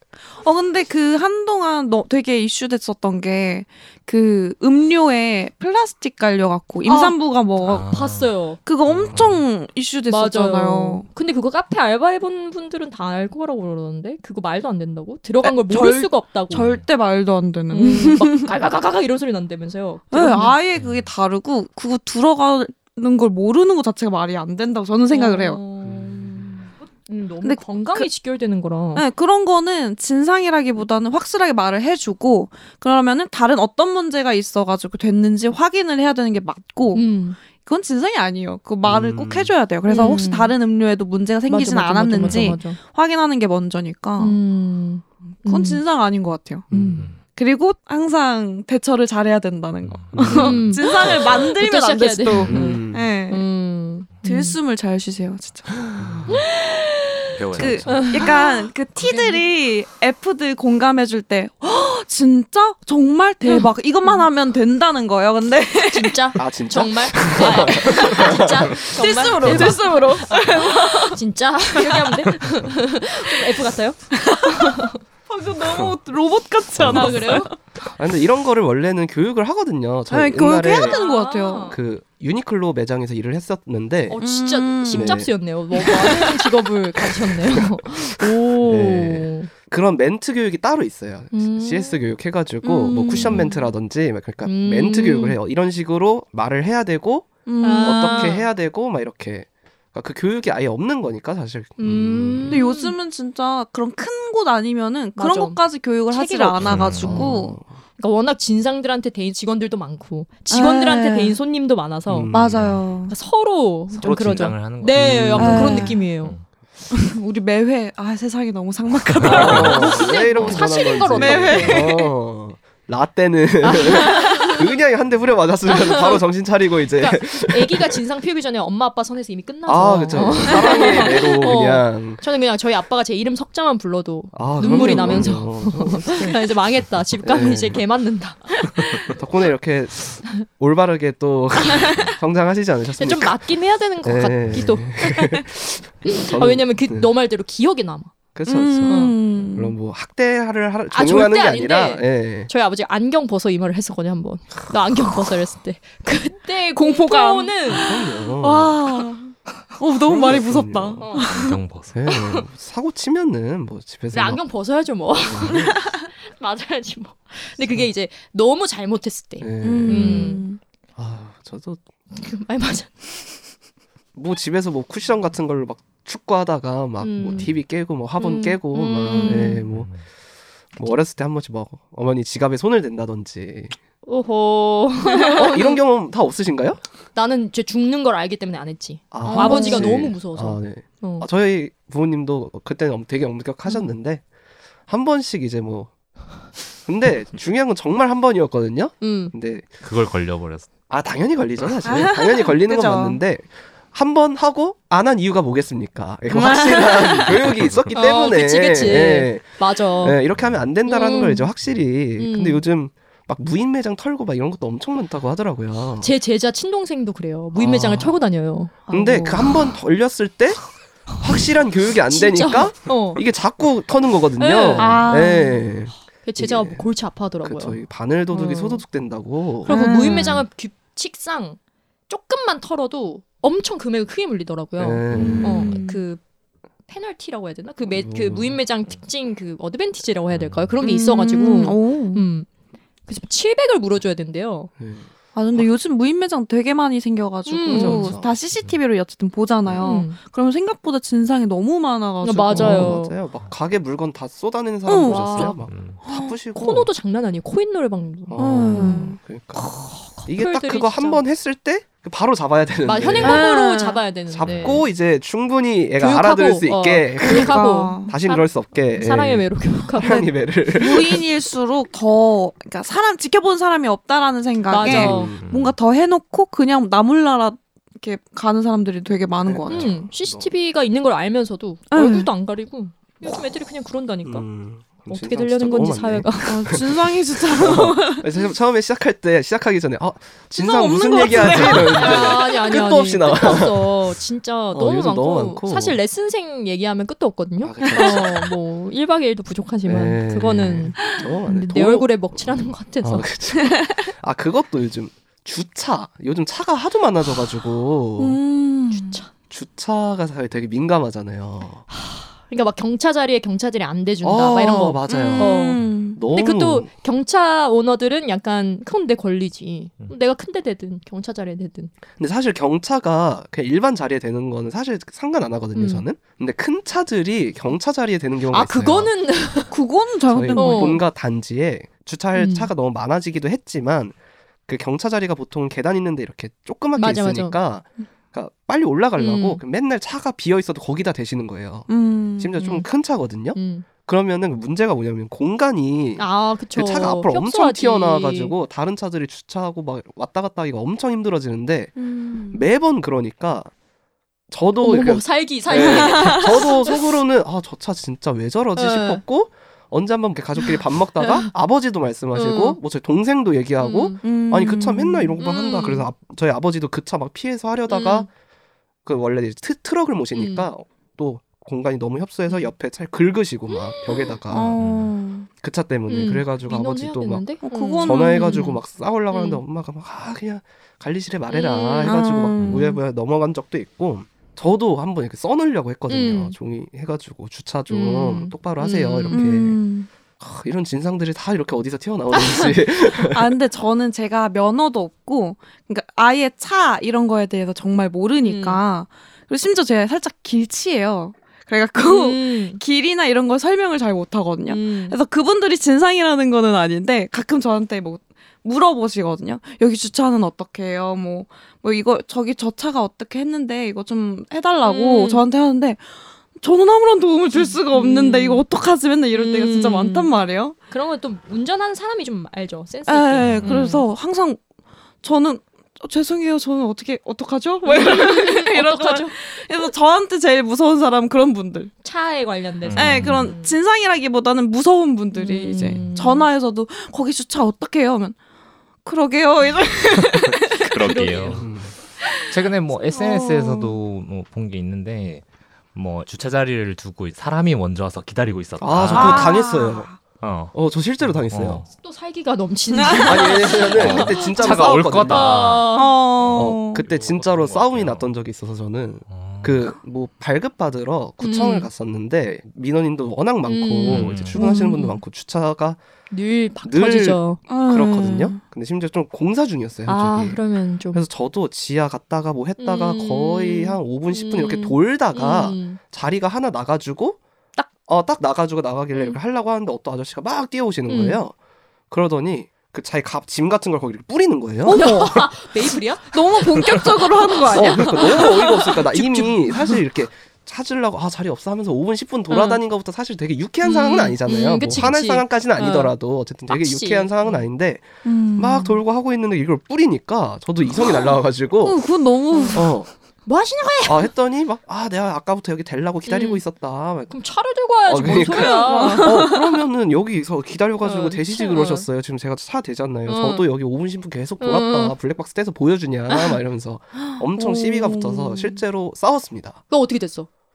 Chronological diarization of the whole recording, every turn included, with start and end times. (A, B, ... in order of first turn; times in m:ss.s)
0:00.3-0:08.0 A
0:06.8-0:07.2 B
0:07.6-0:08.3 C
0:07.9-0:08.6 B
0:08.6-0:11.0 A
0:08.9-0:09.4 C
0:08.9-0:09.2 D
0:10.1-0:16.7 B
0:15.4-0:18.5 A
0:16.5-0:16.8 C
0:17.7-0:20.6 B
0:20.1-0:25.6 A
0:20.7-0:21.1 C
0:25.1-0:29.0 B
0:27.4-0:28.1 A
0:28.9-0:44.4 A
0:36.9-0:37.4 B
0:38.8-0:39.5 D
0:39.9-0:40.5 B
0:41.5-0:42.8 B
0:42.2-0:42.5 C
0:44.2-0:45.8 B
0:45.4-0:46.7 A
0:46.7-0:47.0 D
0:46.7-0:47.1 B
0:47.2-0:53.4 A
0:49.8-0:51.4 C
0:50.1-0:50.6 D
0:50.3-0:54.6 B
0:52.5-0:53.1 D
0:54.2-1:06.3 A
0:55.9-0:56.3 C
0:56.0-0:56.3 D
0:57.3-0:58.2 C
0:57.6-0:57.9 D
0:57.9-0:59.5 B
1:03.4-1:04.3 B
1:05.8-1:14.9 B
1:06.4-1:08.9 D
1:07.4-1:11.2 A
1:09.4-1:09.8 D
1:11.8-1:12.3 A
1:14.2-1:17.6 A
1:15.6-1:16.0 D
1:16.7-1:21.0 D
1:16.9-1:17.5 B
1:20.1-1:21.8 A
1:20.8-1:21.8 B
1:21.7-1:24.2 D
1:24.1-1:29.5 B
1:24.2-1:26.6 A
1:24.9-1:25.3 D
1:27.5-1:42.6 D
1:31.3-1:32.1 B
1:32.6-1:33.6 A
1:33.1-1:33.6 B
1:34.4-1:35.4 B
1:37.4-1:38.4 A
1:37.6-1:38.5 B
1:41.8-1:42.9 B
1:42.5-1:47.6 A
1:45.2-1:47.3 B
1:46.6-1:47.3 C
1:46.8-1:47.7 D
1:48.0-1:52.3 B
1:50.5-1:51.4 A
1:52.1-1:52.6 D
1:52.3-1:53.1 A
1:52.5-1:52.8 C
1:53.1-1:56.3 B
1:53.9-1:56.4 C
1:54.9-1:55.8 D
1:55.4-1:56.0 A
1:56.9-2:00.6 A
1:59.2-1:59.8 C
1:59.2-2:01.9 B
1:59.3-2:08.0 D
2:01.1-2:02.1 A
2:03.6-2:04.6 B
2:03.8-2:04.5 A
2:05.7-2:06.2 B
2:06.9-2:19.2 B
2:09.6-2:12.2 D
2:10.5-2:11.0 A
2:14.3-2:16.4 D
2:14.6-2:15.3 A
2:17.2-2:17.8 D
2:19.1-2:27.1 D
2:21.8-2:22.1 B
2:23.0-2:28.1 B
2:28.3-2:32.5 D
2:28.5-2:29.7 A
2:28.8-2:29.2 B
2:30.9-2:37.9 B
2:36.8-2:41.6 A
2:37.8-2:38.8 D
2:40.0-2:41.1 D
2:41.0-2:41.3 B
2:41.2-2:42.0 C
2:41.9-2:44.4 D
2:42.1-2:42.4 B
2:44.1-2:50.4 B
2:45.1-2:45.7 D
2:49.4-2:50.4 D
2:49.6-2:50.6 A
2:51.0-2:51.8 D
2:52.1-2:53.5 B
2:54.1-3:00.0 D
2:57.0-2:57.6 B
2:58.2-2:59.6 B
2:59.1-2:59.6 A
2:59.7-3:00.0 C
3:00.8-3:03.8 D
3:04.0-3:05.8 B
3:05.3-3:06.8 D
3:07.1-3:11.3 B
3:09.1-3:14.2 D
3:09.2-3:10.0 A
3:14.9-3:15.9 D
3:16.8-3:19.7 D
3:19.0-3:19.3 B
3:19.8-3:20.7 C
3:20.9-3:36.1 D
3:21.8-3:23.2 A
3:26.3-3:27.6 A
3:27.6-3:27.9 C
3:27.9-3:30.2 B
3:30.3-3:30.6 C
3:30.8-3:31.5 B
3:32.2-3:32.6 B
3:36.0-3:38.9 B
3:37.5-3:38.2 D
3:38.9-3:39.6 A
3:38.9-3:46.9 D
3:42.1-3:43.2 B
3:44.4-3:45.1 B
3:44.8-3:45.6 A
3:46.2-3:48.8 B
3:47.4-3:50.2 D
3:49.6-3:51.6 B
3:49.6-3:50.4 A
3:52.1-3:56.2 B
3:54.8-3:55.8 D
3:55.1-3:55.5 C
3:55.2-3:56.0 A
3:56.9-4:02.5 B
3:57.9-3:58.6 D
4:00.3-4:00.7 C
4:00.8-4:02.2 A
4:03.1-4:04.7 B
4:04.8-4:05.7 D
4:05.3-4:13.0 A
4:07.5-4:08.1 B
4:07.7-4:08.3 D
4:08.5-4:08.8 C
4:09.8-4:10.2 B
4:12.2-4:13.2 B
4:12.5-4:16.9 D
4:14.9-4:16.3 A
4:15.0-4:15.6 B
4:15.7-4:16.0 C
4:16.5-4:21.2 B
4:18.3-4:19.7 D
4:18.4-4:19.2 A
4:20.2-4:23.5 D
4:22.8-4:24.8 B
4:23.2-4:24.0 A
4:24.3-4:31.2 D
4:24.4-4:24.8 C
4:26.0-4:30.3 B
4:27.2-4:28.1 A
4:30.8-4:39.9 A
4:34.7-4:35.3 B
4:34.8-4:35.4 D
4:35.4-4:35.8 C
4:39.4-4:40.5 D
4:39.7-4:46.7 B
4:41.9-4:42.3 A
4:44.2-4:53.9 D
4:46.4-4:48.3 A
4:50.6-4:52.5 A
4:51.5-5:03.3 B
4:54.7-4:56.0 D
4:57.6-4:58.5 D
4:57.9-4:58.2 A
4:59.8-5:08.4 D
5:08.2-5:09.2 A
5:08.9-5:09.3 B
5:09.5-5:11.8 D
5:11.9-5:21.9 B
5:14.2-5:16.9 D
5:15.1-5:16.2 A
5:22.2-5:29.1 D
5:25.7-5:26.0 B
5:28.5-5:29.8 B
5:29.7-5:31.0 A
5:30.3-5:34.1 D
5:30.5-5:31.0 B
5:32.3-5:32.7 B
5:34.7-5:51.9 D
5:37.0-5:37.6 B
5:39.2-5:39.6 B
5:41.9-5:42.6 A
5:42.6-5:42.9 B
5:43.5-5:43.8 B
5:46.2-5:48.5 B
5:52.0-5:52.6 A
5:52.5-5:53.7 D
5:54.5-6:08.3 D
5:54.8-5:57.0 B
5:55.7-5:56.5 A
5:58.7-5:59.2 B
6:00.6-6:01.5 B
6:02.3-6:02.8 B
6:03.8-6:04.2 B
6:04.2-6:05.4 A
6:05.4-6:06.1 B
6:07.9-6:08.3 B
6:09.0-6:14.8 D
6:10.3-6:10.7 B
6:13.7-6:14.4 B
6:14.5-6:15.5 A
6:14.8-6:15.1 C
6:15.6-6:29.8 D
6:16.1-6:18.8 B
6:17.6-6:18.7 A
6:19.3-6:19.6 B
6:21.5-6:22.2 B
6:22.0-6:23.0 A
6:22.6-6:22.8 C
6:26.1-6:26.5 B
6:27.9-6:29.5 B
6:29.3-6:30.1 A
6:30.4-6:33.4 D
6:32.3-6:32.7 B
6:33.2-7:00.7 A
6:38.4-6:38.8 B
6:42.0-6:42.8 B
6:44.7-6:45.2 B
6:54.8-6:55.4 B
6:57.5-6:58.6 B
6:59.3-7:00.3 B
7:00.9-7:04.0 B
7:03.0-7:04.6 A
7:03.4-7:03.9 C
7:05.2-7:11.9 A
7:07.8-7:09.9 B
7:12.0-7:13.8 B
7:12.8-7:13.5 C
7:13.0-7:18.4 A
7:15.3-7:16.5 B
7:19.0-7:20.9 A
7:20.2-7:21.8 C
7:21.0-7:21.7 B
7:21.5-7:21.9 D
7:22.5-7:29.5 C
7:23.1-7:24.0 A
7:28.8-7:30.2 D
7:29.1-7:30.2 A
7:30.4-7:31.9 C
7:30.7-7:31.8 D
7:32.0-7:36.1 B
7:33.0-7:33.5 A
7:33.2-7:35.6 D
7:33.8-7:38.3 C
7:35.9-7:37.0 A
7:36.5-7:46.0 D
7:39.3-7:39.9 C
7:41.4-7:41.9 B
7:43.6-7:45.2 B
7:44.1-7:44.6 C
7:46.3-7:47.6 B
7:46.8-7:50.6 D
7:47.7-7:48.6 A
7:50.0-7:51.2 B
7:51.1-8:01.5 D
7:52.8-7:56.0 B
8:01.1-8:01.4 B
8:02.1-8:05.1 D
8:04.8-8:09.1 A
8:04.9-8:09.9 B
8:07.7-8:22.0 D
8:12.5-8:12.8 B
8:13.8-8:17.7 B
8:18.2-8:19.0 A
8:21.8-8:22.9 A
8:22.5-8:22.9 B
8:22.7-8:23.1 D
8:23.4-8:24.3 B
8:24.0-8:27.4 D
8:26.3-8:26.6 B
8:27.3-8:29.4 B
8:28.0-8:39.8 D
8:28.2-8:29.7 A
8:31.0-8:32.1 B
8:33.3-8:33.7 B
8:34.6-8:35.1 B
8:36.3-8:36.5 B
8:37.6-8:38.8 A
8:39.9-8:40.5 B